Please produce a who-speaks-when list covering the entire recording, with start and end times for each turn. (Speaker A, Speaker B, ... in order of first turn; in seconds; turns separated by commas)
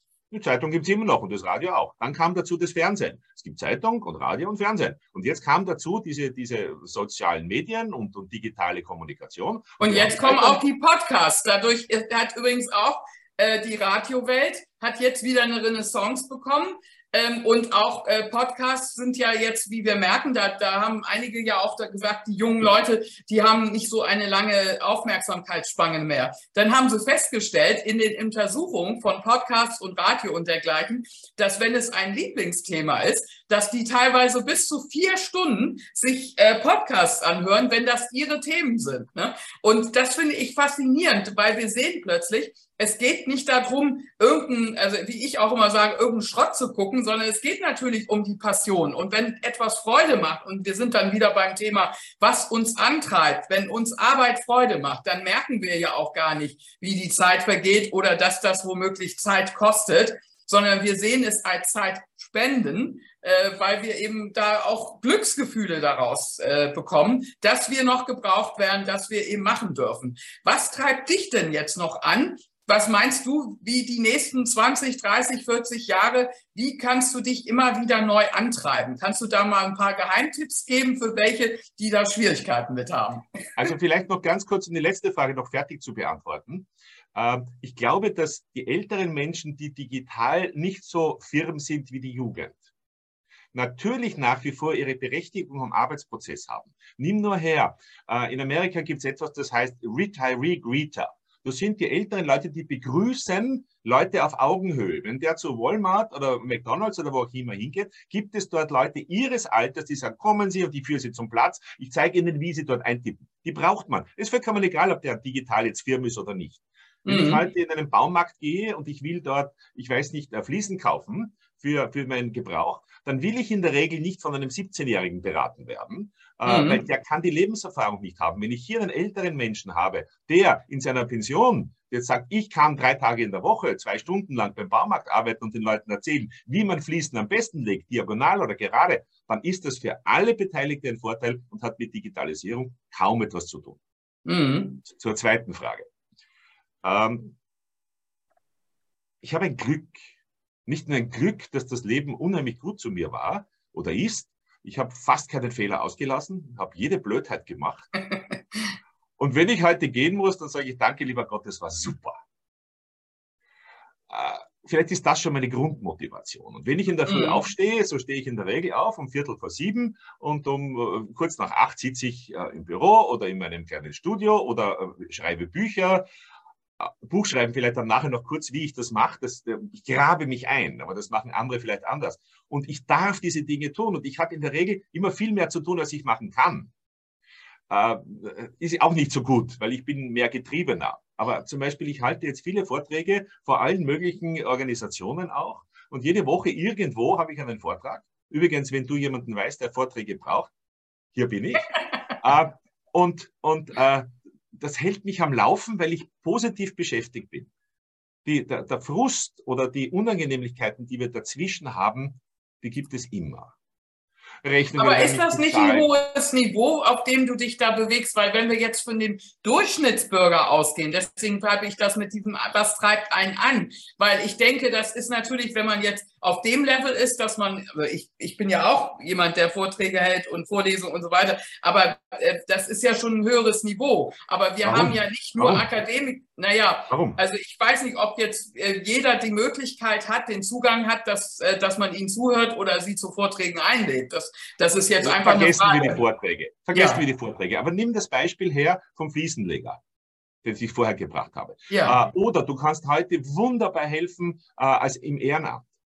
Speaker A: 0.3-10.6, Speaker B: 9.8-83.2, Speaker A: 83.5-92.6, Speaker A: 93.5-143.8, Speaker B: 117.0-117.5, Speaker B: 126.5-126.8, Speaker B: 144.2-144.8, Speaker A: 144.8-145.9, Speaker A: 146.8-147.3, Speaker A: 149.2-150.1, Speaker A: 150.7-157.9, Speaker A: 159.2-162.2, Speaker A: 164.1-176.0, Speaker B: 167.1-167.5, Speaker A: 176.8-186.7, Speaker A: 187.7-200.5, Speaker A: 201.1-207.5, Speaker A: 208.2-213.5, Speaker A: 214.4-215.9, Speaker B: 214.8-246.0, Speaker A: 234.6-235.7, Speaker A: 236.9-237.2, Speaker A: 245.0-249.8, Speaker B: 246.7-247.0, Speaker A: 250.4-255.7, Speaker B: 251.7-252.0